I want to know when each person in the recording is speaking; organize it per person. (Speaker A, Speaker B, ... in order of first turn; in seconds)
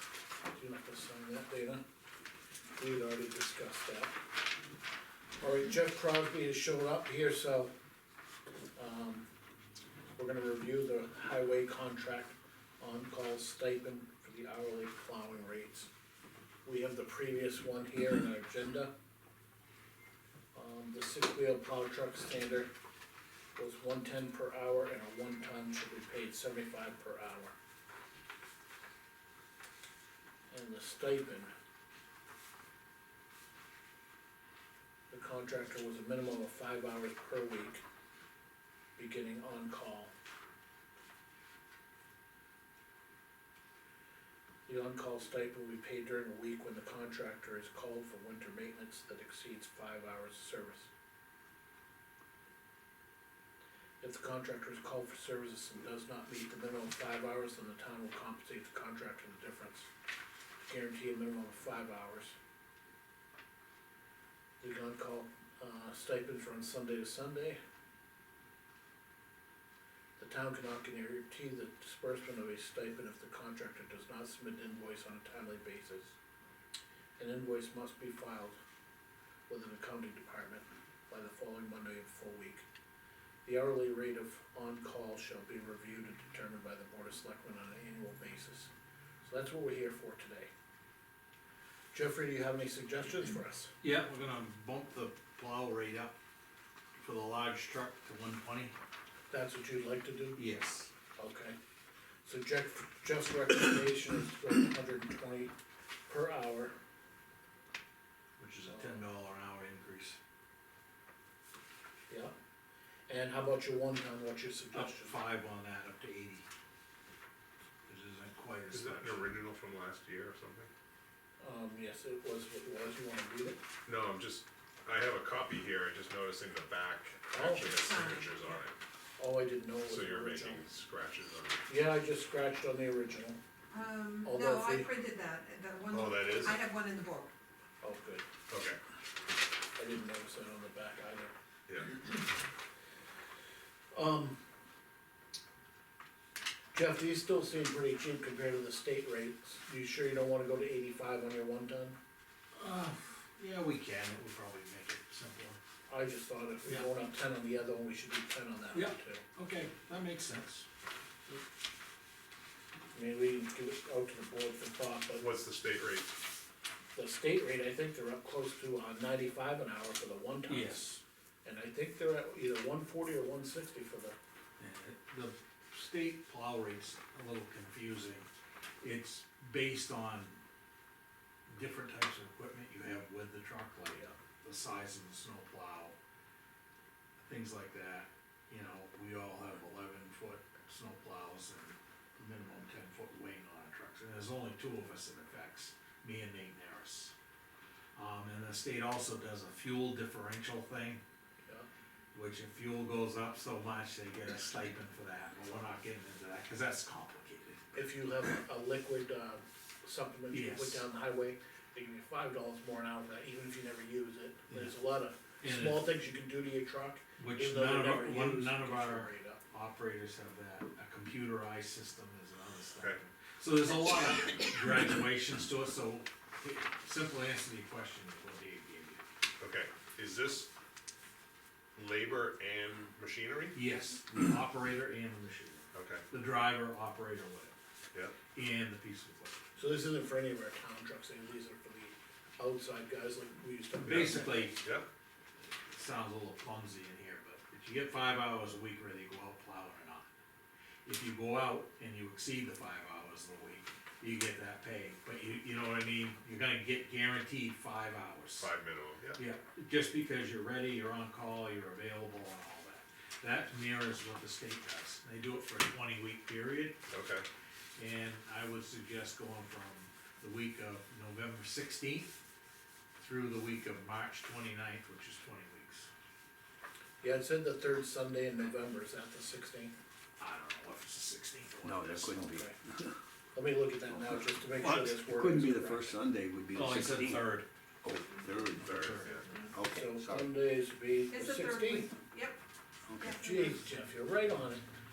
Speaker A: 0.5-1.8, 2.8-4.2, 5.4-7.7, 8.8-9.2, 10.2-15.9, 16.6-18.9, 20.5-22.7, 23.6-27.5, 30.5-31.5, 35.1-37.8, 39.0-40.1, 44.6-50.9, 54.0-59.9, 60.6-62.3, 64.6-67.6, 70.2-76.2, 77.2-78.5, 79.5-82.6, 83.4-88.7, 89.2-90.5, 91.9-93.7, 99.3-100.4, 101.2-101.5, 102.2-105.5, 106.1-106.7, 108.7-109.0, 113.1-115.2, 121.4-123.6, 127.3-127.9, 129.2-130.7, 131.7-133.4, 134.2-134.9, 137.8-138.2, 139.8-141.3, 143.9-144.4, 146.7-151.9, 155.9-159.2, 162.9-165.2, 166.9-174.2, 207.7-219.4, 239.6-244.5, 277.0-279.7, 283.3-285.9, 289.3-291.9, 293.1-294.6
Speaker B: 93.8-96.1, 97.0-98.8, 100.3-100.9, 108.4-110.2, 114.7-116.5, 117.9-119.3, 152.5-155.6, 158.7-160.7, 170.5-171.0, 174.6-178.3, 178.8-180.4, 181.5-185.9, 187.2-197.1, 197.9-201.0, 202.1-207.6, 210.3-210.8, 215.4-215.9, 217.2-229.0, 233.5-237.5, 238.3-239.3, 243.8-244.6, 245.7-250.1, 250.8-258.5, 259.1-266.8, 267.8-272.1, 272.9-275.9, 280.2-282.4, 286.5-287.4, 288.6-289.5
Speaker C: 118.7-120.7, 123.8-128.8, 129.8-131.7, 135.9-136.6, 138.5-138.8, 165.1-166.1, 229.4-230.5, 231.8-233.6, 235.7-236.0, 258.4-259.2, 266.9-267.2, 288.6-289.2
Speaker D: 127.8-128.6, 133.7-137.3, 291.1-292.4, 293.0-293.6
Speaker E: 281.6-282.9, 283.9-287.3, 287.8-288.9, 289.5-290.3, 292.9-293.1